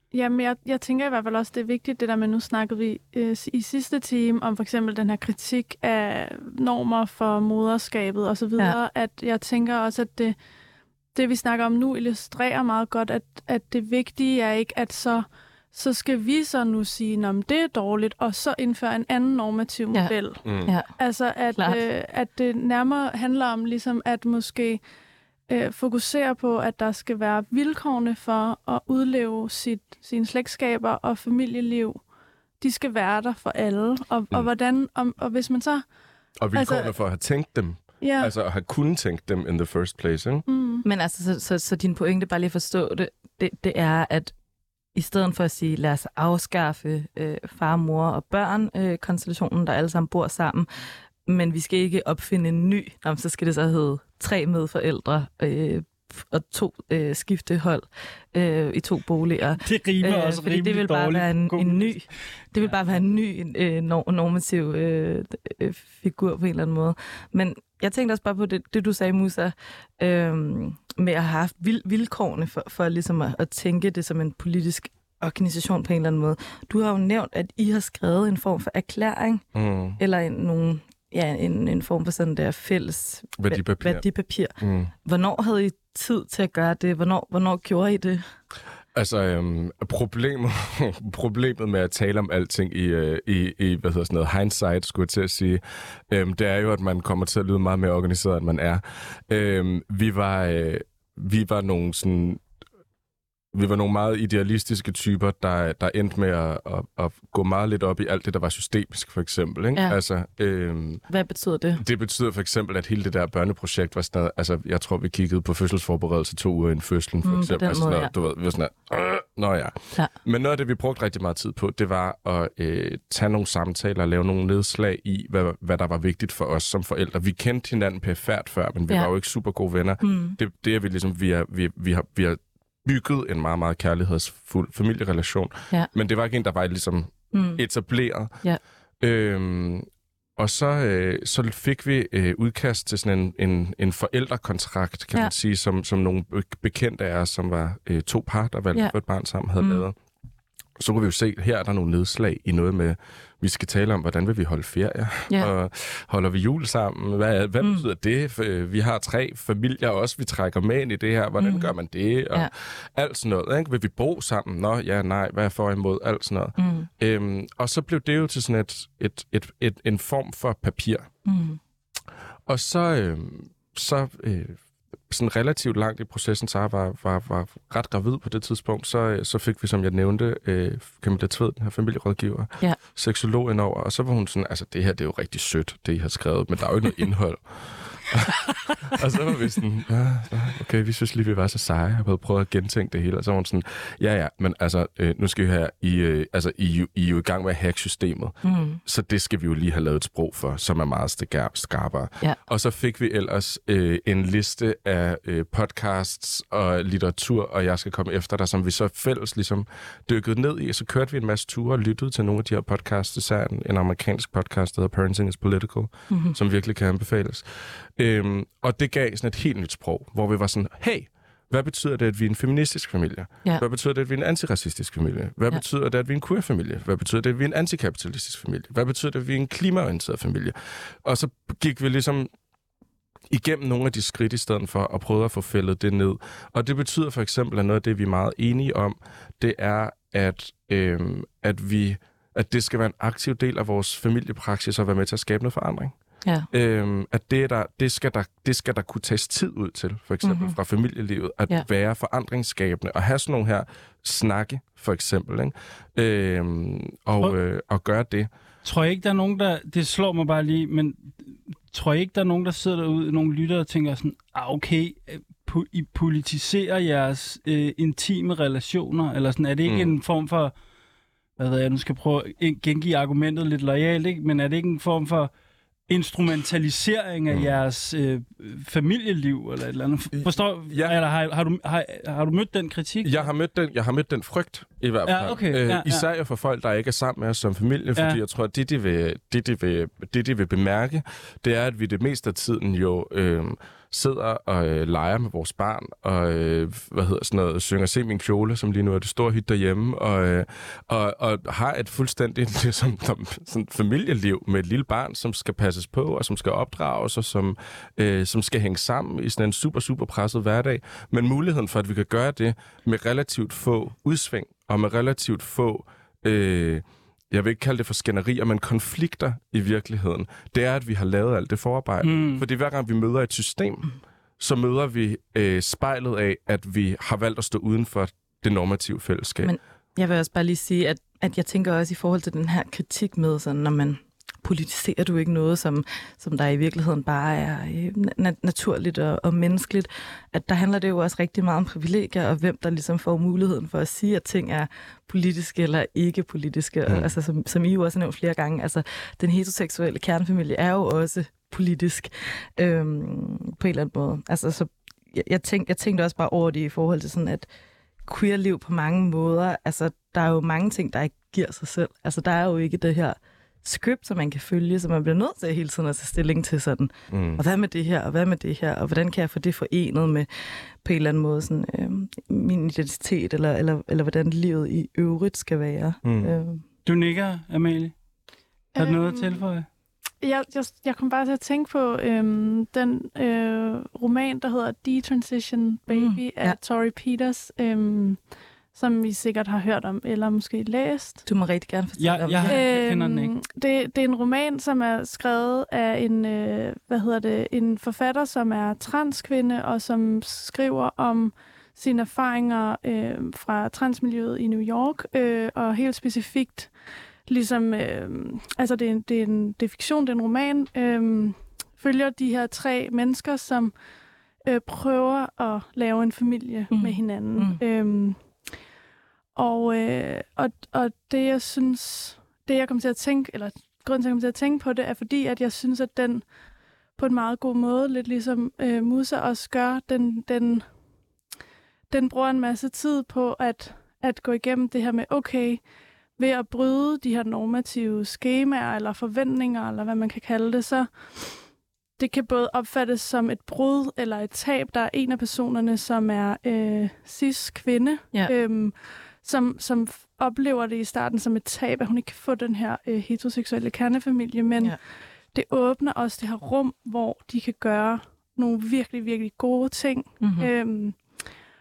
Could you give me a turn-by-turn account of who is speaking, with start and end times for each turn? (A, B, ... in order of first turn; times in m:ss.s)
0:00.1-0:10.4 A
0:11.1-0:24.8 A
0:19.9-0:20.9 B
0:20.4-0:20.7 C
0:21.5-0:21.8 B
0:25.5-0:32.0 A
0:32.6-0:35.9 A
0:36.4-0:40.4 C
0:36.5-0:36.9 A
0:38.0-0:38.3 A
0:40.5-0:40.8 A
0:40.8-0:44.3 B
0:45.0-1:19.4 B
0:59.6-1:02.1 D
1:19.6-1:20.0 C
1:20.0-1:28.3 B
1:23.4-1:24.0 C
1:24.6-1:24.9 C
1:28.9-1:42.4 C
1:43.5-1:51.0 C
1:51.1-1:51.8 B
1:51.8-2:18.4 C
1:57.2-1:58.1 B
2:10.0-2:10.4 B
2:17.3-2:17.6 B
2:19.0-2:30.0 C
2:29.6-2:29.9 B
2:30.8-2:51.1 C
2:41.4-2:41.7 B
2:46.6-2:46.9 B
2:51.2-2:51.6 B
2:52.5-3:52.3 C
3:18.4-3:18.8 B
3:36.1-3:36.4 B
3:53.3-4:05.9 C
4:06.5-4:18.3 C
4:10.2-4:10.6 B
4:18.6-4:30.5 D
4:29.7-4:30.0 C
4:31.4-4:35.3 D
4:35.9-4:43.2 D
4:40.2-4:41.0 C
4:43.0-5:29.5 C
4:45.1-4:46.1 D
5:22.0-5:22.4 D
5:29.4-5:57.5 B
5:46.9-5:47.1 C
5:58.0-6:16.6 B
6:07.1-6:07.4 C
6:16.0-6:16.3 C
6:16.9-6:18.0 D
6:18.8-6:19.4 A
6:18.8-6:19.7 D
6:20.2-6:31.2 A
6:25.9-6:26.6 B
6:31.3-6:32.7 B
6:32.0-6:33.3 D
6:32.5-6:46.8 A
6:47.3-6:53.7 A
6:54.4-6:58.3 A
6:56.7-6:57.6 B
6:59.4-7:06.3 A
7:07.0-7:10.7 A
7:11.9-7:15.6 A
7:16.2-7:21.4 A
7:22.0-7:34.8 A
7:35.3-7:41.2 A
7:40.2-7:40.5 B